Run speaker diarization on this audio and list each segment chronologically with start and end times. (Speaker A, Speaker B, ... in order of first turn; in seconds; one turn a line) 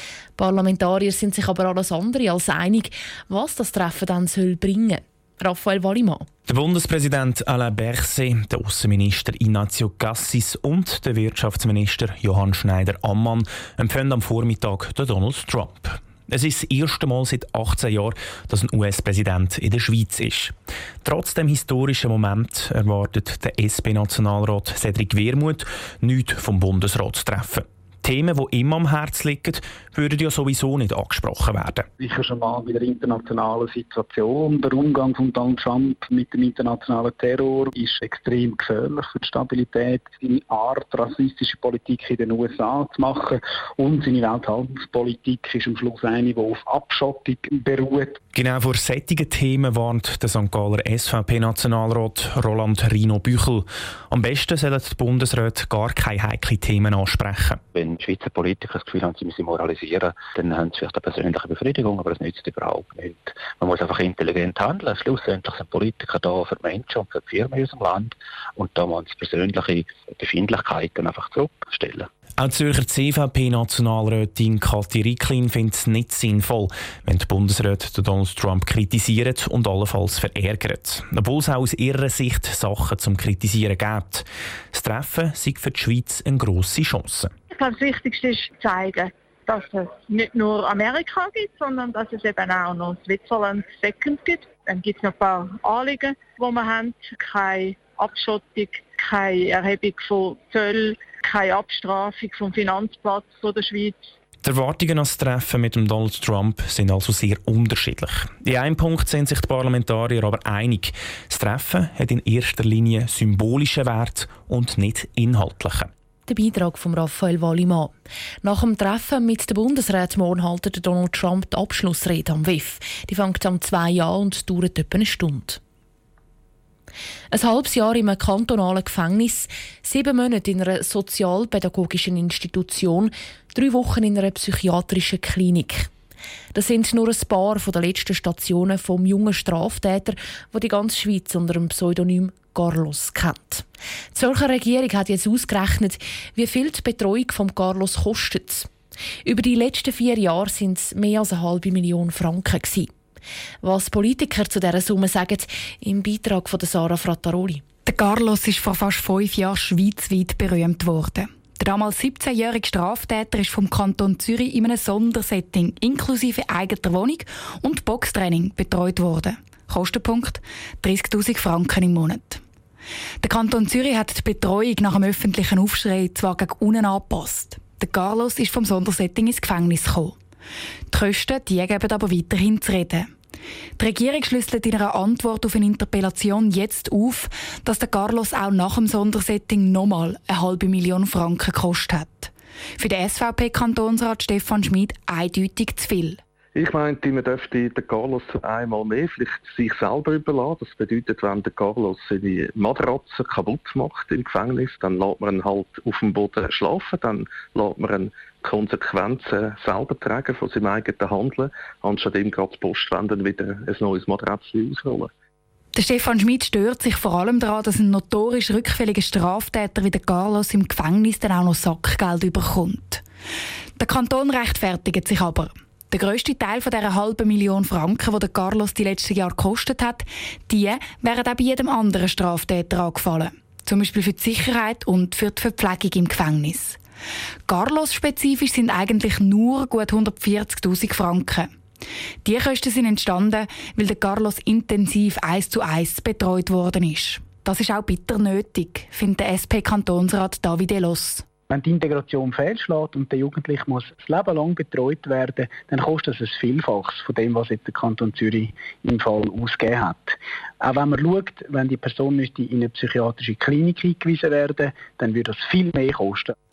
Speaker A: 0.4-6.3
Speaker B: 6.5-31.9
Speaker C: 32.0-48.2
Speaker B: 48.3-57.6
Speaker D: 57.7-72.1
Speaker B: 72.4-87.3
Speaker E: 87.5-104.0
Speaker B: 104.4-115.9
Speaker A: 116.3-117.9
Speaker A: 118.4-125.6
Speaker A: 127.3-135.9
Speaker A: 136.5-148.7
Speaker A: 149.2-152.9
Speaker A: 153.6-157.6
Speaker F: 157.9-172.4
Speaker F: 173.2-180.2
Speaker F: 180.9-183.1
Speaker F: 183.8-196.2
Speaker G: 196.6-215.1
Speaker F: 215.8-223.0
Speaker F: 223.8-236.8
Speaker F: 237.5-241.5
Speaker F: 242.2-251.2
Speaker C: 251.5-266.3